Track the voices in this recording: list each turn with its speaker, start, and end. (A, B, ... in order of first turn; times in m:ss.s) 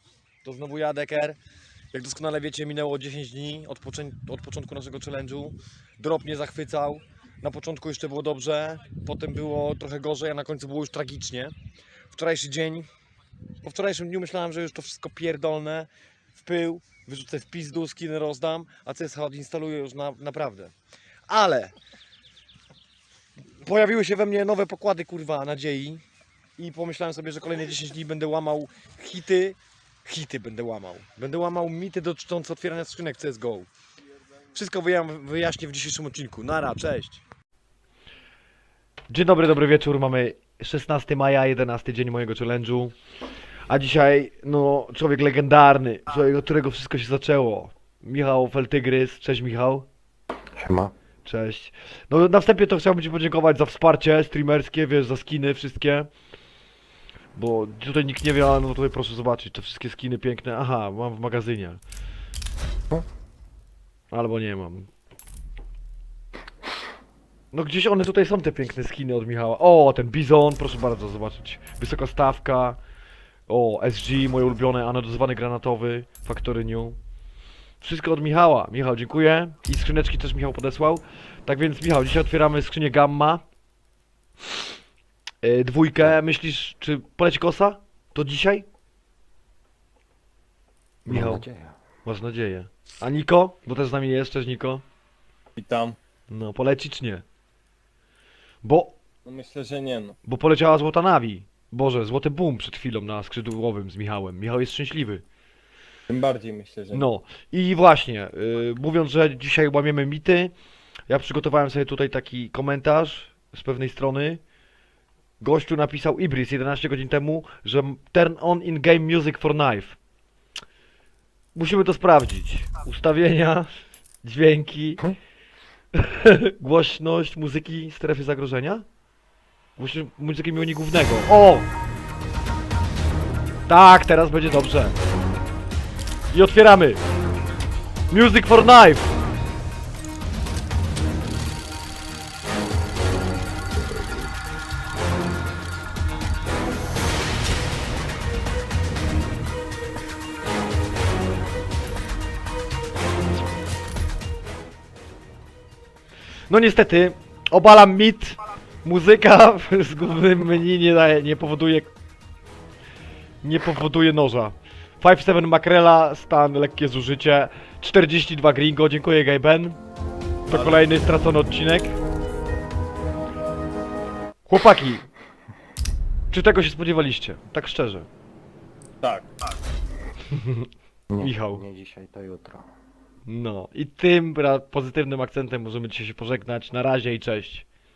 0:00.4-0:01.4 A
0:01.9-0:11.5 A
0:12.1-0:12.9 A
0:13.6-0:20.7 A
0:21.3-0:21.8 A
0:23.5-0:26.0 A
0:26.6-0:33.7 A
0:34.5-0:37.2 A
0:39.1-0:42.9 A
0:43.7-0:49.9 A
0:50.6-0:50.9 B
0:51.2-0:56.1 A
0:57.3-1:01.8 A
1:04.1-1:04.9 A
1:07.5-1:12.8 A
1:13.5-1:17.0 A
1:17.8-1:23.4 A
1:25.4-1:28.6 A
1:31.0-1:31.4 A
1:31.1-1:31.8 B
1:32.0-1:34.8 A
1:35.6-1:36.0 C
1:36.3-1:37.2 A
1:38.6-1:39.0 A
1:39.2-1:40.2 C
1:40.2-1:45.2 A
1:46.1-1:47.0 C
1:46.9-1:50.5 A
1:51.1-1:54.4 A
1:55.4-2:00.0 A
2:01.5-2:05.1 A
2:05.9-2:08.8 A
2:09.8-2:11.7 A
2:13.7-2:15.0 A
2:16.3-2:17.0 A
2:18.1-2:19.1 A
2:36.5-2:41.9 A
2:43.4-2:49.8 A
2:50.5-2:52.0 A
2:50.5-2:50.8 C
2:54.4-2:55.1 A
2:56.3-2:58.1 A
2:59.0-2:59.3 C
3:00.3-3:00.7 A
3:01.1-3:02.6 B
3:01.2-3:01.6 A
3:03.3-3:07.6 A